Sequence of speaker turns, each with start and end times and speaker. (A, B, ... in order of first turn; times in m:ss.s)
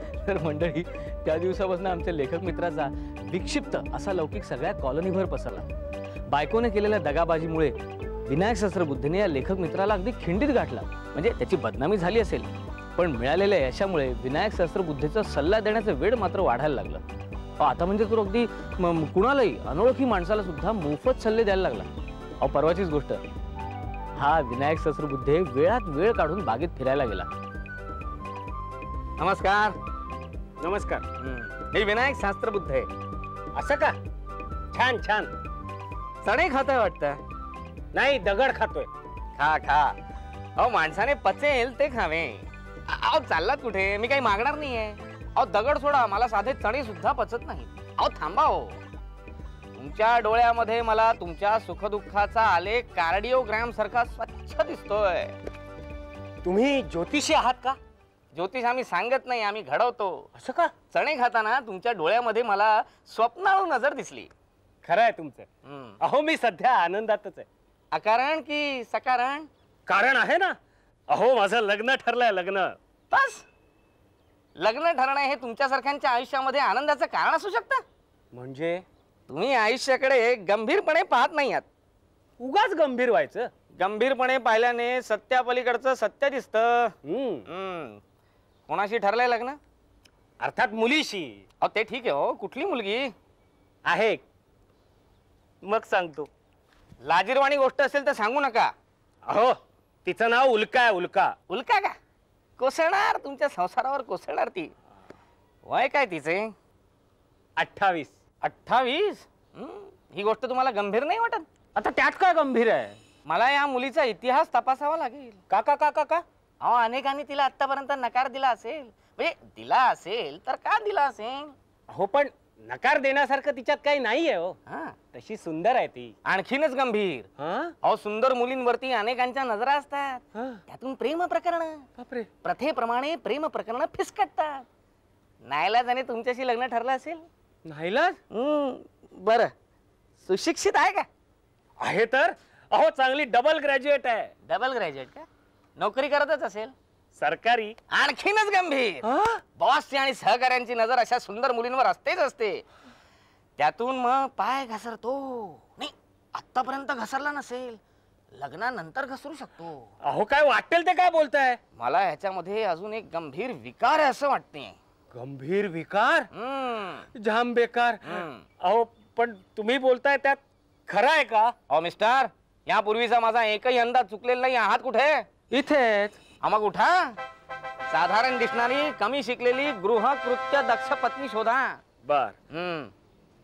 0:00.1-0:05.7 A
0:06.3-0:17.0 A
0:17.6-0:23.2 A
0:24.2-0:27.3 A
0:29.2-0:29.8 A
0:30.6-0:31.0 B
0:31.2-0:32.9 A
0:33.5-0:34.0 B
0:34.7-0:35.3 B
0:36.2-0:37.2 A
0:37.9-0:38.9 B
0:39.4-0:40.0 A
0:40.6-0:48.8 A
0:49.8-0:55.4 A
0:56.4-0:57.8 B
0:58.3-1:00.3 A
1:00.4-1:00.7 B
1:00.9-1:04.3 A
1:04.8-1:05.5 B
1:05.6-1:06.0 A
1:06.0-1:07.5 B
1:07.9-1:09.5 A
1:09.9-1:10.6 B
1:11.1-1:12.8 B
1:13.1-1:13.4 A
1:14.6-1:17.8 A
1:18.3-1:18.8 B
1:19.3-1:21.7 A
1:22.4-1:23.5 B
1:23.8-1:26.9 A
1:27.0-1:27.4 B
1:27.5-1:28.0 A
1:28.7-1:29.6 A
1:30.4-1:31.4 B
1:31.6-1:33.1 A
1:33.8-1:34.2 B
1:35.6-1:36.3 B
1:37.0-1:38.7 A
1:39.3-1:41.3 B
1:41.5-1:42.0 A
1:42.6-1:44.7 A
1:45.6-1:46.5 A
1:47.6-1:48.1 B
1:48.4-1:51.5 A
1:51.7-1:53.0 B
1:53.2-1:55.4 A
1:55.5-1:56.2 B
1:56.6-2:01.6 A
2:01.9-2:04.6 B
2:04.7-2:05.0 A
2:05.1-2:06.1 B
2:06.2-2:07.3 A
2:07.4-2:07.7 B
2:07.8-2:11.8 A
2:10.3-2:10.6 B
2:12.0-2:12.3 B
2:12.4-2:14.7 A
2:15.4-2:17.2 A
2:17.7-2:18.2 B
2:18.3-2:19.5 A
2:20.2-2:21.1 A
2:21.8-2:24.3 B
2:24.4-2:26.7 A
2:27.2-2:27.8 B
2:27.9-2:29.0 A
2:29.0-2:29.4 B
2:29.6-2:32.6 A
2:33.6-2:37.8 A
2:38.3-2:39.9 A
2:40.0-2:41.6 B
2:41.8-2:44.8 A
2:45.1-2:46.3 B
2:46.3-2:47.1 A
2:47.1-2:51.5 B
2:48.0-2:48.4 A
2:51.7-2:55.3 A
2:55.5-2:56.2 B
2:56.4-2:57.2 A
2:57.9-3:01.8 A
3:02.0-3:02.3 B
3:02.5-3:02.9 A